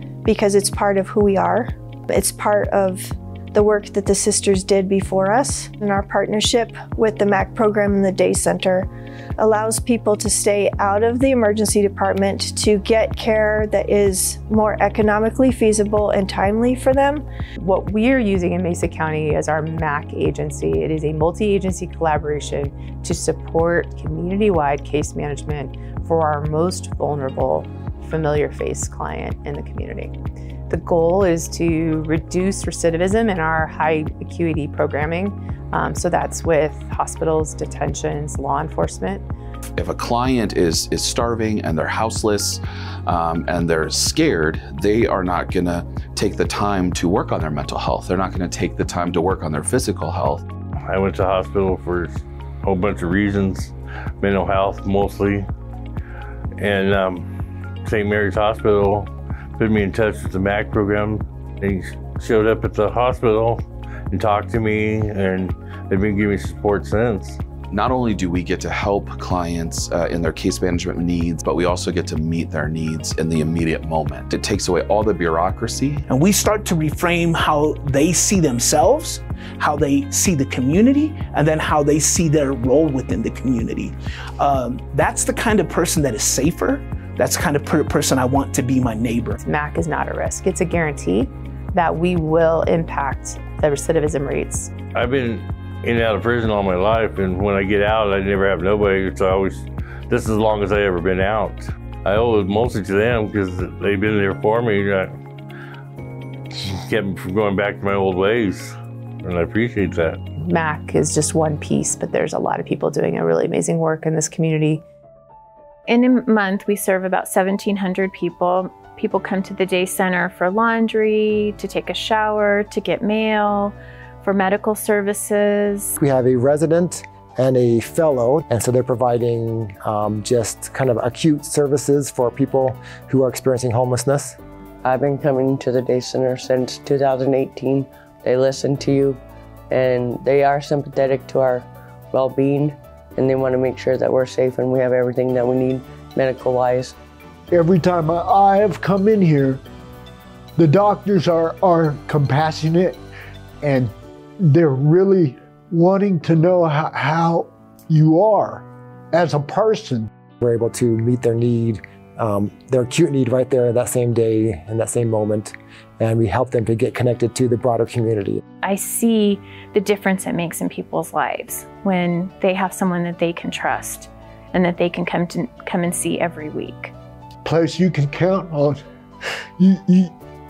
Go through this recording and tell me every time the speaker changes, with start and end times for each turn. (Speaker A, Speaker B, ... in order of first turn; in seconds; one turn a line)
Speaker A: 0.2-17.2
Speaker B: 17.6-30.1
Speaker B: 30.7-39.2
Speaker C: 39.8-50.4
Speaker D: 50.8-55.5
Speaker D: 56.6-57.2
Speaker D: 57.8-67.4
Speaker C: 67.7-76.0
Speaker E: 76.1-89.3
Speaker B: 89.4-94.7
Speaker D: 94.9-105.1
Speaker D: 106.6-110.2
Speaker B: 110.4-114.8
Speaker F: 115.9-126.0
Speaker G: 126.0-134.4
Speaker H: 134.8-139.2
Speaker H: 139.7-147.0
Speaker I: 147.5-149.6
Speaker I: 150.6-153.0
Speaker I: 153.6-160.1
Speaker G: 160.4-168.4
Speaker F: 168.6-176.9
Speaker I: 177.4-178.8
Speaker I: 179.6-180.1